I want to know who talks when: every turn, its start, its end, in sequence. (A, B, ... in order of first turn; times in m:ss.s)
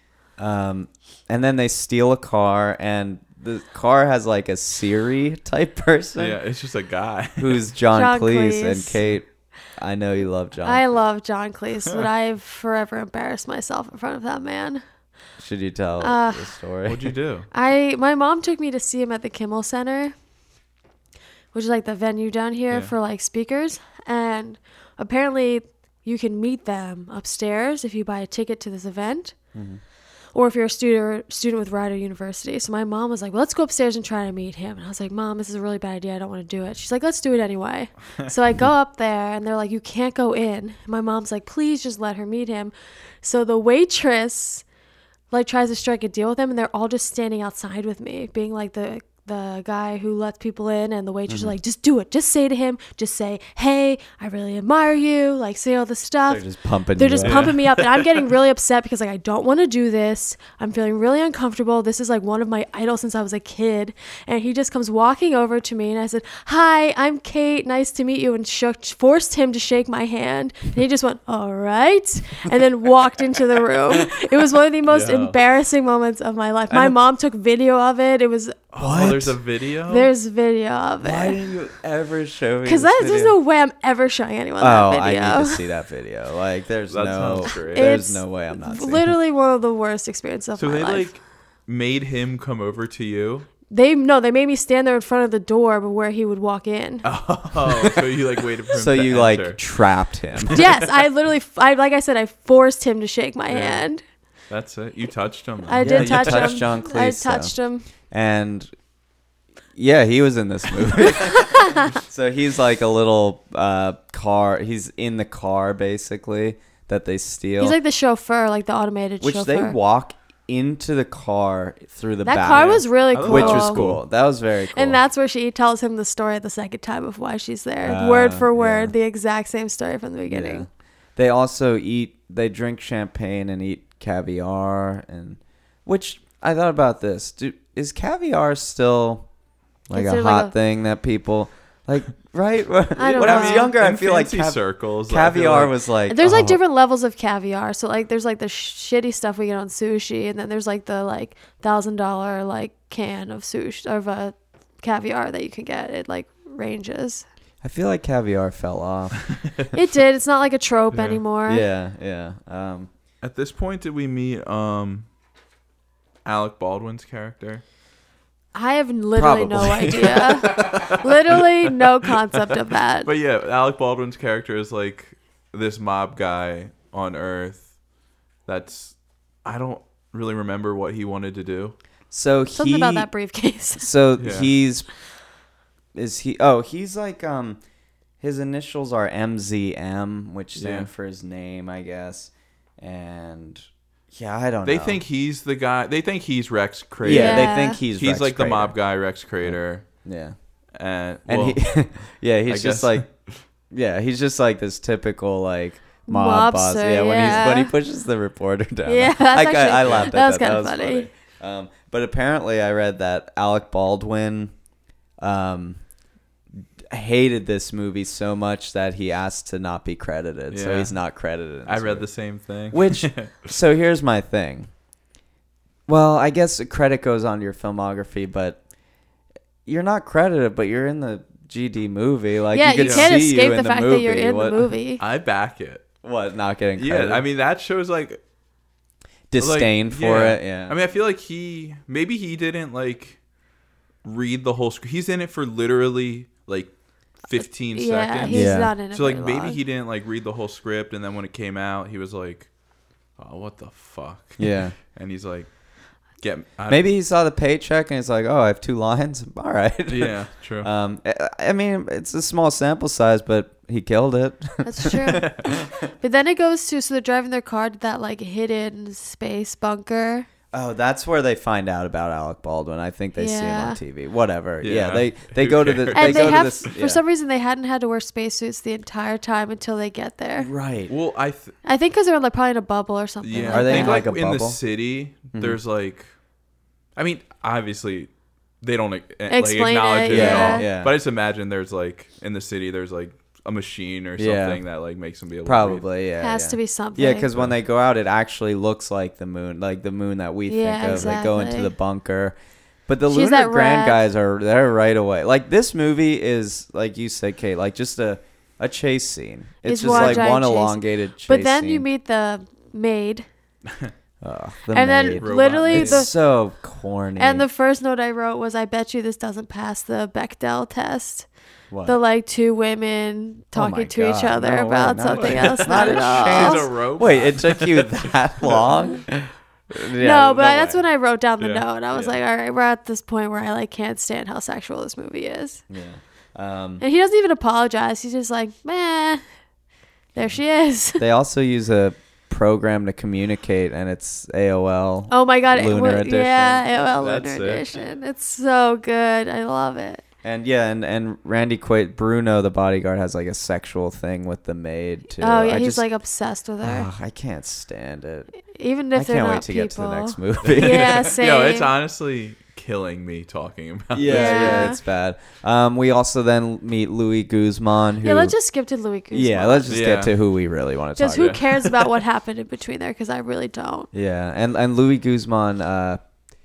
0:00.4-0:06.4 A
0:06.2-0:07.6 B
0:07.4-0:10.8 A
0:07.9-0:09.0 C
0:10.6-0:14.8 C
0:15.4-0:17.1 A
0:16.0-0:16.5 C
0:16.8-0:17.5 B
0:17.5-0:20.1 C
0:21.5-0:29.3 C
0:29.5-0:29.8 A
0:30.3-0:44.6 C
0:45.3-0:56.4 C
0:51.3-0:51.5 A
0:56.3-0:57.5 A
0:57.0-1:18.6 C
0:57.2-0:58.2 B
1:14.9-1:15.4 B
1:16.7-1:16.9 A
1:18.7-1:20.1 B
1:18.8-1:19.4 A
1:19.9-1:21.4 C
1:21.0-1:23.3 A
1:22.6-1:25.6 C
1:24.6-1:29.1 A
1:26.9-1:27.9 B
1:27.5-1:31.1 C
1:30.6-1:33.5 B
1:33.7-1:37.1 C
1:37.0-1:39.6 B
1:38.7-1:40.6 A
1:40.4-1:40.7 B
1:40.5-1:44.0 C
1:43.5-1:43.8 B
1:44.5-1:46.6 B
1:45.7-1:47.9 C
1:45.8-1:47.5 A
1:48.1-1:48.7 A
1:49.7-1:57.8 A
1:51.0-1:51.9 C
1:57.6-1:59.8 C
1:59.2-2:05.0 A
2:02.2-2:03.8 C
2:02.4-2:04.0 B
2:04.7-2:10.6 C
2:07.8-2:08.9 A
2:10.3-2:19.3 A
2:19.9-2:26.6 A
2:19.9-2:20.5 C
2:23.0-2:23.7 C
2:23.1-2:25.8 B
2:26.1-2:37.2 C
2:37.6-2:39.2 A
2:39.3-2:39.6 B
2:39.7-2:41.6 C
2:40.9-2:41.2 B
2:41.5-2:42.9 A
2:43.2-2:45.1 B
2:46.2-2:47.6 B
2:48.5-2:53.1 C
2:49.2-2:50.8 A
2:50.4-2:51.8 B
2:53.0-2:57.7 B
2:58.4-3:01.8 B
3:02.1-3:03.1 A
3:02.5-3:03.9 C
3:03.8-3:04.9 A
3:04.2-3:04.5 B
3:05.9-3:07.6 A
3:08.2-3:15.0 A
3:10.6-3:10.9 B
3:14.6-3:19.9 B
3:17.0-3:18.7 A
3:17.0-3:17.8 C
3:19.4-3:20.3 A
3:20.8-3:21.6 B
3:21.2-3:23.1 A
3:22.5-3:23.4 B
3:23.7-3:34.5 A
3:26.1-3:27.7 C
3:27.2-3:27.5 B
3:28.8-3:31.1 C
3:29.8-3:30.1 B
3:35.2-3:35.8 A
3:36.8-3:42.1 A
3:40.5-3:41.0 B
3:41.6-3:43.5 B
3:42.7-3:44.7 A
3:45.9-3:48.6 A
3:49.6-3:54.6 A
3:52.5-3:55.0 C
3:52.8-3:53.1 B
3:55.0-3:55.8 B
3:56.0-3:57.2 A
3:56.8-3:58.2 B
3:59.3-4:00.8 A
3:59.4-4:03.2 B
4:04.0-4:12.5 B
4:07.4-4:09.6 C
4:08.2-4:08.7 A
4:13.2-4:15.6 B
4:14.4-4:14.8 A
4:16.1-4:16.8 B
4:16.7-4:25.8 A
4:19.9-4:20.7 B
4:24.6-4:30.3 C
4:25.2-4:25.5 B
4:30.5-4:37.0 A
4:33.2-4:33.8 C
4:34.6-4:36.7 B
4:35.9-4:40.5 C
4:40.4-4:40.9 A
4:40.9-4:41.5 B
4:41.6-4:44.0 C
4:43.2-4:46.1 B
4:43.5-4:44.6 A
4:45.3-4:45.6 A
4:47.0-4:48.1 B
4:48.6-4:55.8 B
4:49.3-4:50.7 C
4:50.1-4:50.9 A
4:54.2-4:54.6 A
4:55.4-5:11.8 A
4:56.2-4:57.3 C
5:00.5-5:01.7 C
5:03.1-5:04.0 C
5:09.6-5:13.2 C
5:09.8-5:10.3 B
5:14.2-5:17.4 A
5:14.7-5:16.1 C
5:15.1-5:16.1 B
5:17.2-5:21.3 C
5:21.7-5:22.0 A
5:21.8-5:26.7 C
5:23.5-5:30.8 A
5:25.0-5:28.7 B
5:30.0-5:35.6 C
5:31.4-5:32.2 B
5:35.7-5:36.8 A
5:36.8-5:39.2 C
5:40.1-5:41.0 C
5:41.0-5:46.6 A
5:45.1-5:50.0 C
5:46.9-5:47.7 B
5:50.2-5:55.8 A
5:55.2-5:56.9 C
5:56.6-5:58.3 A
5:58.4-6:01.7 C
5:58.9-6:01.2 A
6:00.4-6:04.7 B
6:03.9-6:08.3 A
6:04.1-6:04.8 C
6:08.0-6:09.8 C
6:09.1-6:11.4 A
6:09.7-6:10.1 B
6:11.0-6:13.9 C
6:11.1-6:11.9 B
6:13.9-6:16.0 A